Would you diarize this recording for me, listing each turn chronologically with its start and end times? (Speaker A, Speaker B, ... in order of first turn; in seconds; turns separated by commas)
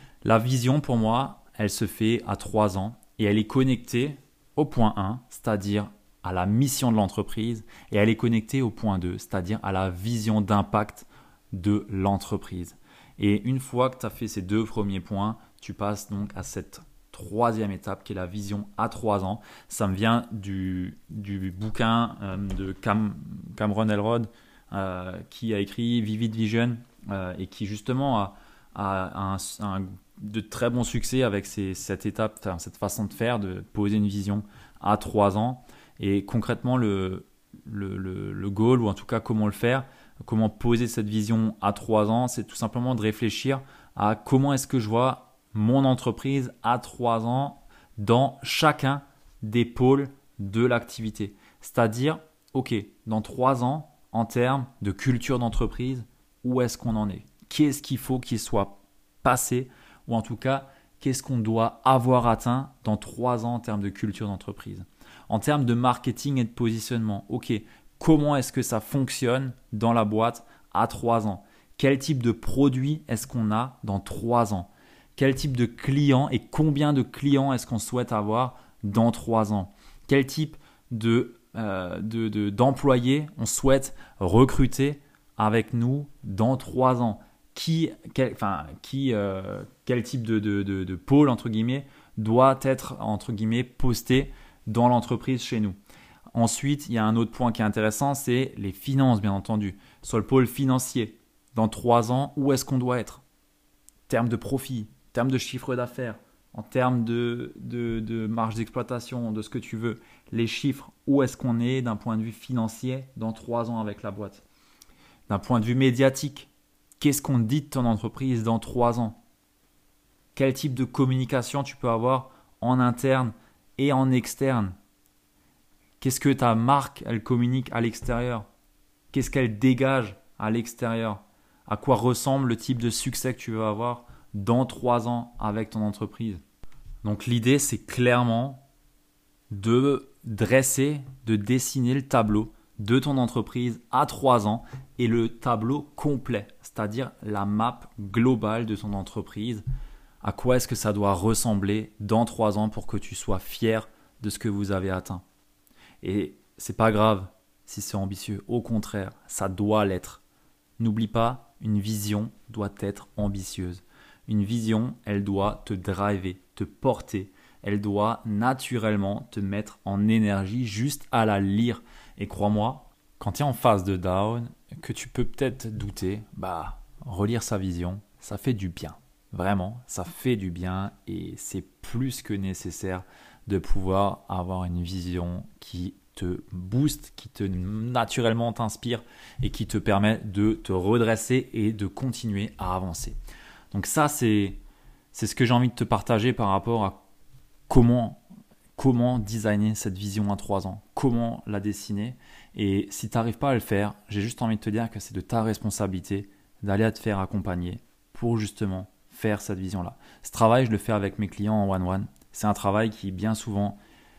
Speaker A: 0.2-95.8, Speaker A: 96.3-103.2, Speaker A: 104.1-114.4, Speaker A: 115.3-116.5, Speaker A: 117.0-119.2, Speaker A: 120.3-124.8, Speaker A: 126.0-128.5, Speaker A: 129.1-136.4, Speaker A: 137.0-138.7, Speaker A: 139.5-149.6, Speaker A: 150.2-155.2, Speaker A: 156.0-160.2, Speaker A: 160.8-193.2, Speaker A: 193.7-194.6, Speaker A: 195.1-197.0, Speaker A: 197.7-198.2, Speaker A: 198.8-213.8